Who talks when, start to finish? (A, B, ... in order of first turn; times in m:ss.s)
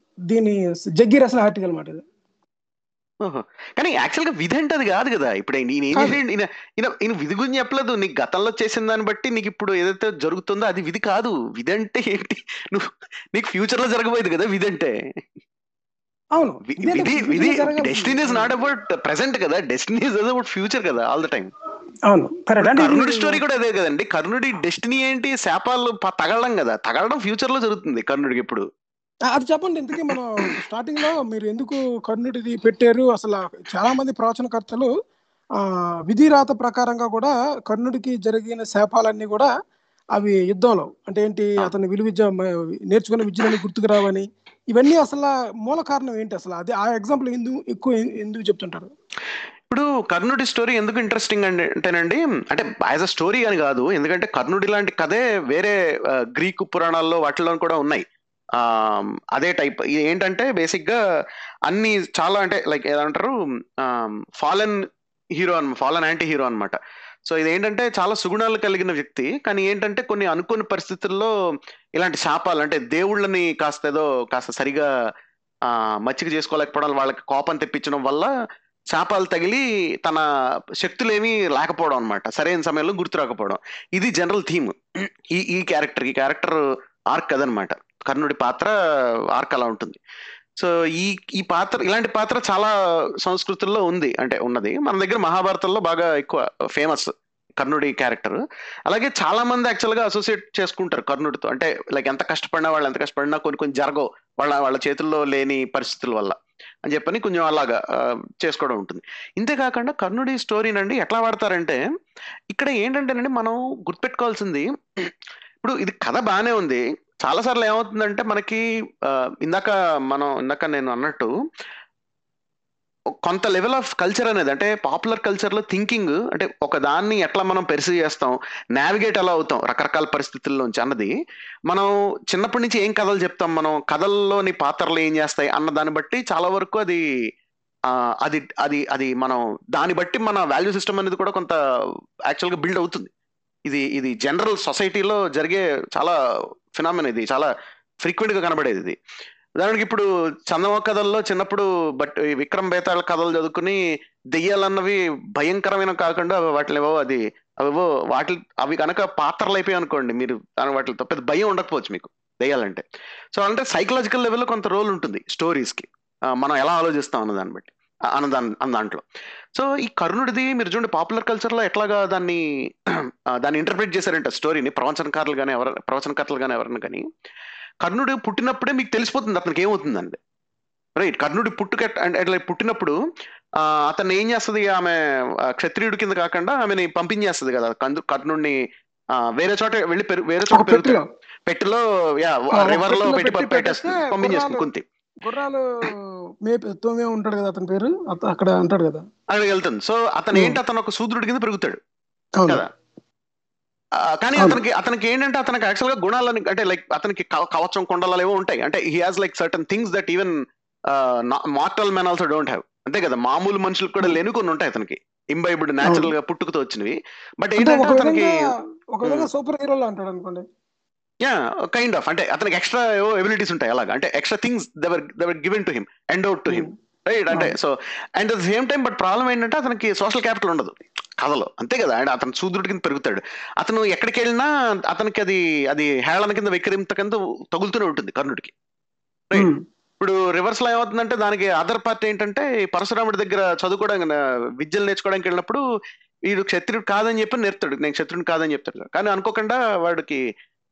0:00.3-0:02.0 A
0:03.2-0:15.0 B
0:16.4-0:18.5 A
0:16.7-0:21.5 B
0:22.1-0:23.4 A
0:22.6-0:28.6 B
0:29.3-0:34.9 A
0:36.1-0:39.5 A
0:40.2-0:48.9 A
0:49.7-1:01.0 B
1:01.7-1:04.8 B
1:05.4-1:11.3 B
1:12.0-1:14.9 B
1:15.7-1:18.3 B
1:18.9-1:20.2 B
1:20.8-1:28.7 B
1:29.3-1:30.0 B
1:30.6-1:32.7 B
1:33.2-1:51.8 B
1:52.5-1:55.1 B
1:55.6-2:01.3 B
2:03.2-2:11.1 B
2:11.7-2:17.0 B
2:17.9-2:21.6 B
2:22.3-2:23.1 B
2:23.7-2:26.2 B
2:26.8-2:27.5 B
2:28.0-2:29.0 B
2:29.6-2:33.8 B
2:34.3-2:42.8 B
2:43.3-2:49.0 B
2:49.5-2:57.0 B
2:57.8-3:00.2 B
3:01.0-3:03.0 B
3:03.6-3:08.6 B
3:09.1-3:14.8 B
3:10.5-3:11.1 A
3:12.6-3:14.7 A
3:15.2-3:15.9 A
3:16.4-3:19.0 A
3:19.3-3:21.8 B
3:22.4-3:22.6 A
3:24.0-3:30.3 B
3:30.9-3:38.4 B
3:35.8-3:36.1 A
3:37.6-3:40.4 A
3:41.2-3:58.5 B
3:59.4-3:59.6 A
4:00.0-4:05.6 B
4:06.3-4:10.2 B